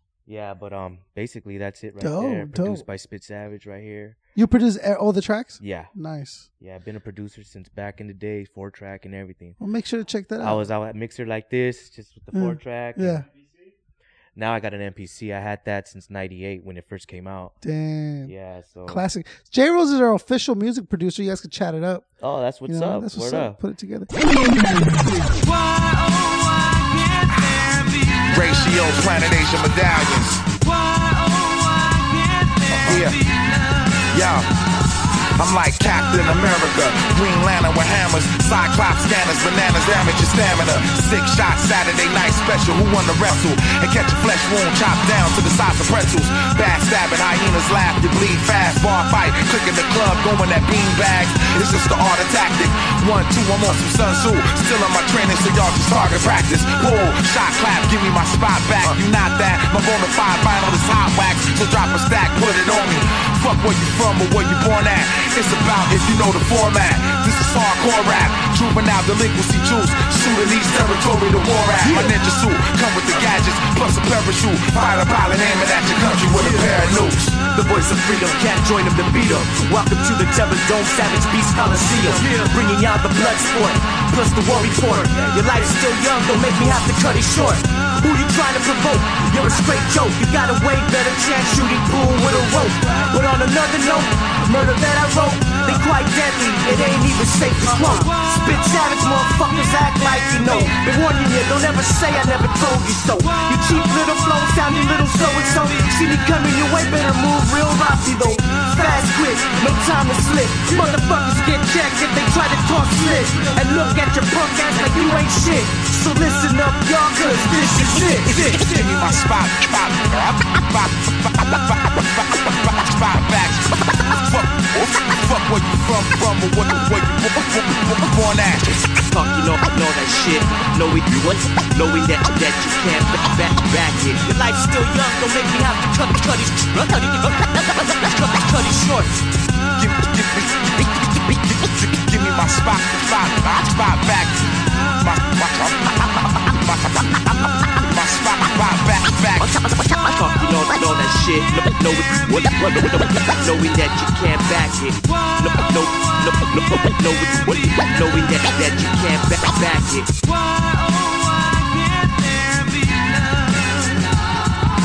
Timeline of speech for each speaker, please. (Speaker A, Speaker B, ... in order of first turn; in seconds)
Speaker A: 0.3-4.2, 5.6-5.9, 6.6-9.6, 10.4-13.2, 14.3-17.5, 18.2-19.0, 22.2-23.6
Speaker B: 2.0-2.8, 4.3-6.5, 9.6-10.7, 12.3-13.2, 17.6-18.3, 18.9-22.1, 22.7-24.1
Speaker C: 27.3-30.4, 32.7-33.2, 34.1-34.5, 35.4-77.3, 117.7-128.8, 139.8-149.5
Speaker D: 71.8-72.1, 76.3-118.6, 129.1-139.2, 149.4-160.1